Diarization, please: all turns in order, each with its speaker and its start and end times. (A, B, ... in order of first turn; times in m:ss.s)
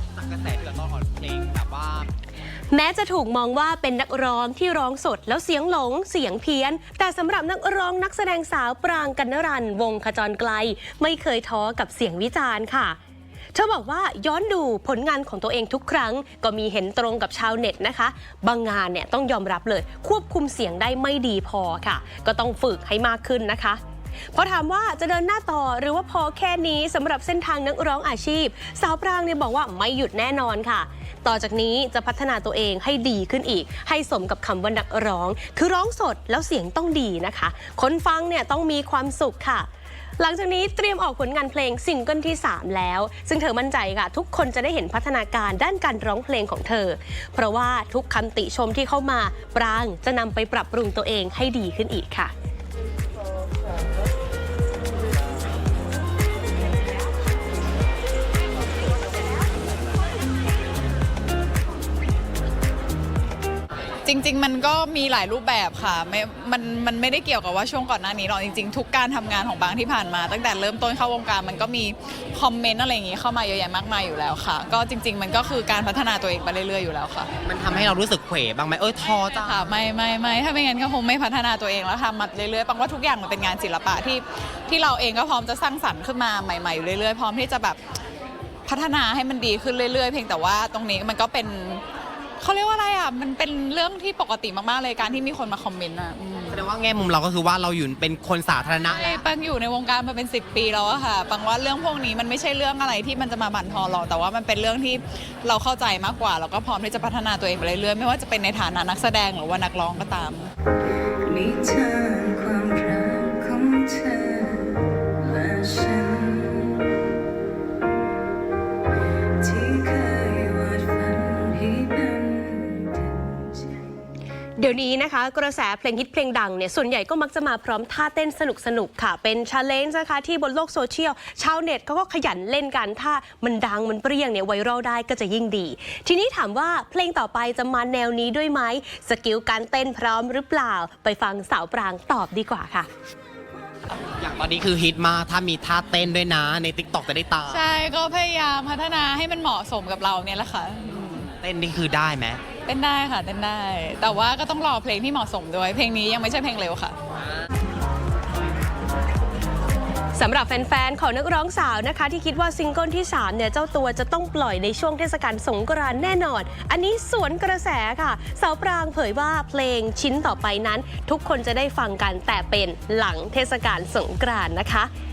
0:00.2-0:02.1 A
0:02.7-0:13.0 B
0:13.6-0:23.8 B
0:24.3-0:39.7 B
0:40.2-0:52.3 B
1:04.0-1:17.3 C
1:17.4-1:19.7 A
1:19.3-1:27.8 C
1:28.7-1:31.8 C
1:32.4-1:36.6 C
1:36.5-1:39.2 A
1:38.9-1:50.5 C
1:51.2-1:56.9 D
1:59.4-2:03.8 D
2:04.6-2:22.9 B
2:24.2-2:27.6 A
2:27.5-2:31.3 C
2:31.4-2:32.4 A
2:32.7-2:37.0 C
2:40.2-2:54.9 B